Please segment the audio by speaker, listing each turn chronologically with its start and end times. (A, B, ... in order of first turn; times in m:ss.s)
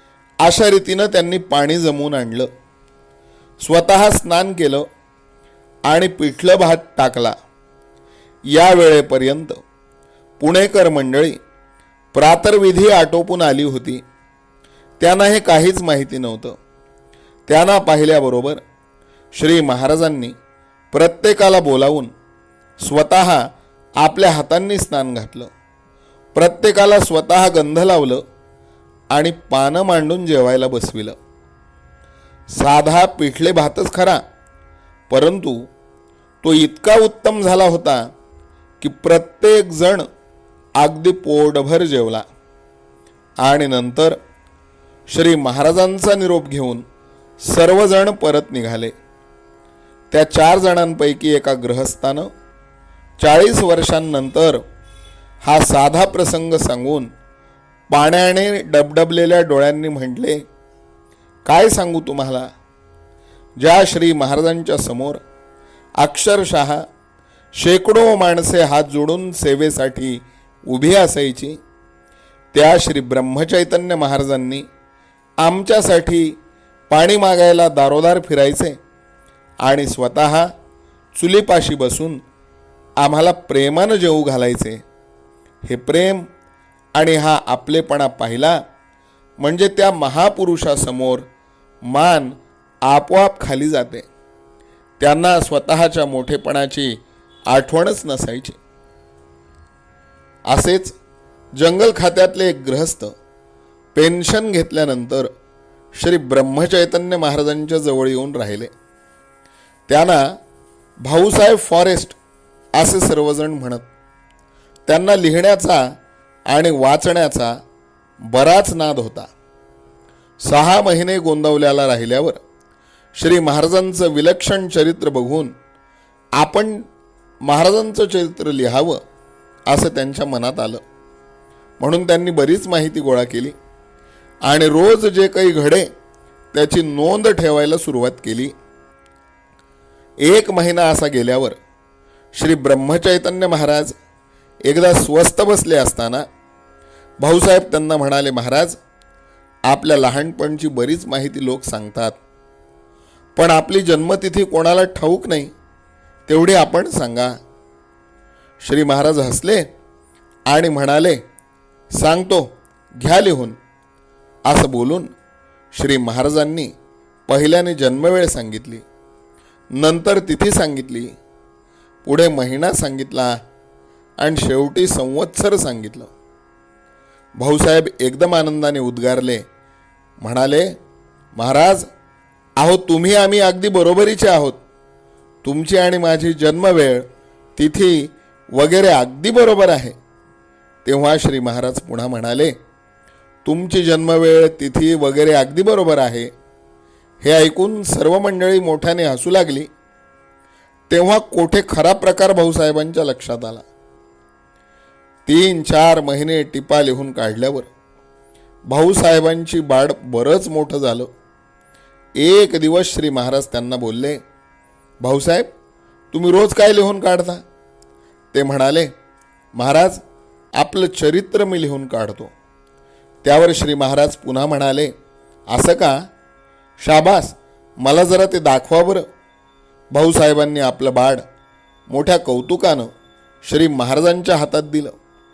0:00.4-0:02.5 A
0:03.6-0:04.8 A
0:05.9-0:07.3 A
0:08.5-0:09.6 A
0:10.4-0:11.4 A
0:12.1-0:14.0 A
0:15.0-0:16.6 A
0:17.5-0:18.6 A
0:19.3-0:20.4 A
0:20.9-0:22.1 A
0:22.8-0:23.5 A
0:24.0-0:25.5 A
0:26.3-0:28.2 A
0:29.1-0:31.2 A
0:32.5-0:34.2 A
0:35.1-0:35.7 A
0:36.4-0:38.1 A
0:38.8-0:40.0 A
0:40.8-0:42.2 A
0:43.4-0:44.2 A
0:45.1-0:46.8 A
0:47.4-0:48.9 A
0:50.1-0:52.3 A
0:53.2-0:54.6 A
0:55.4-0:57.1 A
0:57.9-1:00.4 A
1:01.4-1:02.4 A
1:03.6-1:05.2 A
1:06.0-1:06.8 A
1:07.6-1:11.6 A
1:12.5-1:14.6 A
1:15.4-1:16.3 A
1:16.9-1:18.8 A
1:19.6-1:20.5 A
1:21.1-1:22.2 A
1:23.0-1:24.8 A
1:25.6-1:26.2 A
1:27.0-1:28.6 A
1:29.4-1:31.2 A
1:31.8-1:34.1 A
1:35.0-1:38.6 A
1:40.5-1:41.0 A
1:41.6-1:43.1 A
1:43.9-1:45.3 A
1:45.9-1:48.7 A
1:49.9-1:50.4 A
1:51.0-1:52.2 A
1:52.8-1:53.9 A
1:54.8-1:55.8 A
1:56.5-1:57.5 A
1:58.3-1:59.3 A
2:00.4-2:02.4 A
2:03.2-2:05.5 A
2:06.4-2:06.8 A
2:07.4-2:09.0 A
2:09.7-2:10.8 A
2:11.8-2:13.5 A
2:14.5-2:15.9 A
2:16.5-2:18.5 A
2:20.2-2:21.6 A
2:22.3-2:24.0 A
2:24.6-2:26.2 A
2:27.2-2:28.8 A
2:29.7-2:32.2 A
2:33.4-2:35.5 A
2:36.3-2:37.3 A
2:38.6-2:39.6 A
2:40.5-2:41.2 A
2:42.0-2:43.6 A
2:44.5-2:45.1 A
2:45.7-2:46.7 A
2:47.3-2:48.8 A
2:49.8-2:51.1 A
2:52.0-2:53.3 A
2:54.2-2:56.1 A
2:57.4-2:59.4 A
3:00.2-3:00.7 A
3:01.3-3:01.9 A
3:02.6-3:04.6 A
3:05.4-3:07.0 A
3:07.6-3:10.0 A
3:10.8-3:12.5 A
3:13.4-3:16.3 A
3:17.2-3:19.7 A
3:20.9-3:23.6 A
3:25.2-3:27.7 A
3:28.7-3:31.1 A
3:32.2-3:34.2 A
3:35.0-3:35.5 A
3:36.1-3:37.4 A
3:38.3-3:38.9 A
3:39.6-3:40.0 A
3:40.6-3:42.3 A
3:43.2-3:44.9 A
3:45.5-3:46.0 A
3:46.8-3:49.0 A
3:49.9-3:51.2 A
3:51.9-3:52.9 A
3:53.4-3:54.9 A